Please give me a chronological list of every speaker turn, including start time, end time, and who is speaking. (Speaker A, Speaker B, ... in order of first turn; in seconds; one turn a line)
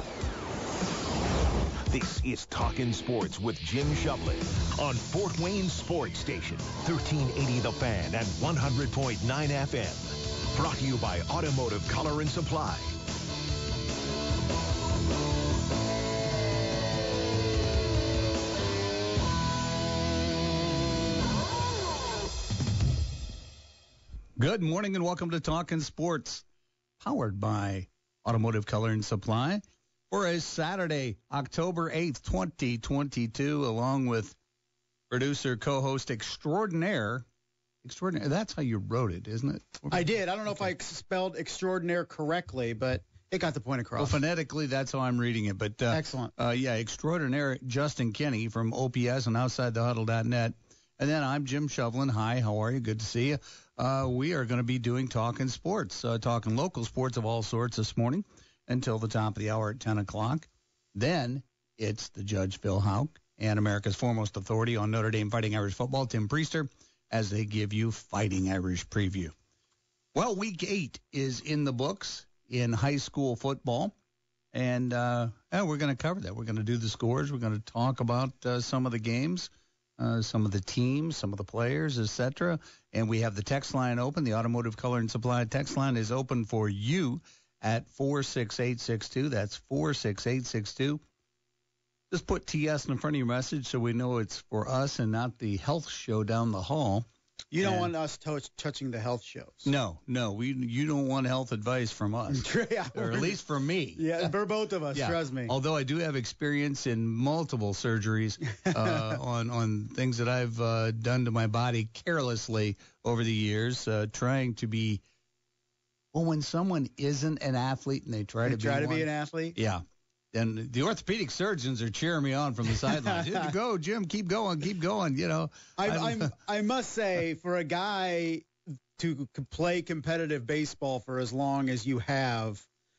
Speaker A: 1.9-13.0
Speaker B: 24.4-26.4
Speaker B: 27.0-34.4
Speaker B: 35.1-37.2
Speaker B: 37.8-40.7
Speaker C: 39.9-44.2
Speaker B: 44.0-69.3
Speaker C: 45.9-46.3
Speaker B: 70.1-73.9
Speaker B: 74.5-91.0
Speaker B: 92.1-97.0
Speaker C: 97.5-99.7
Speaker B: 97.6-97.9
Speaker B: 99.6-104.3
Speaker C: 102.3-103.4
Speaker C: 104.0-105.5
Speaker B: 104.9-115.0
Speaker C: 108.6-109.2
Speaker B: 116.1-126.3
Speaker C: 118.4-119.6
Speaker C: 123.0-123.5
Speaker C: 125.8-132.7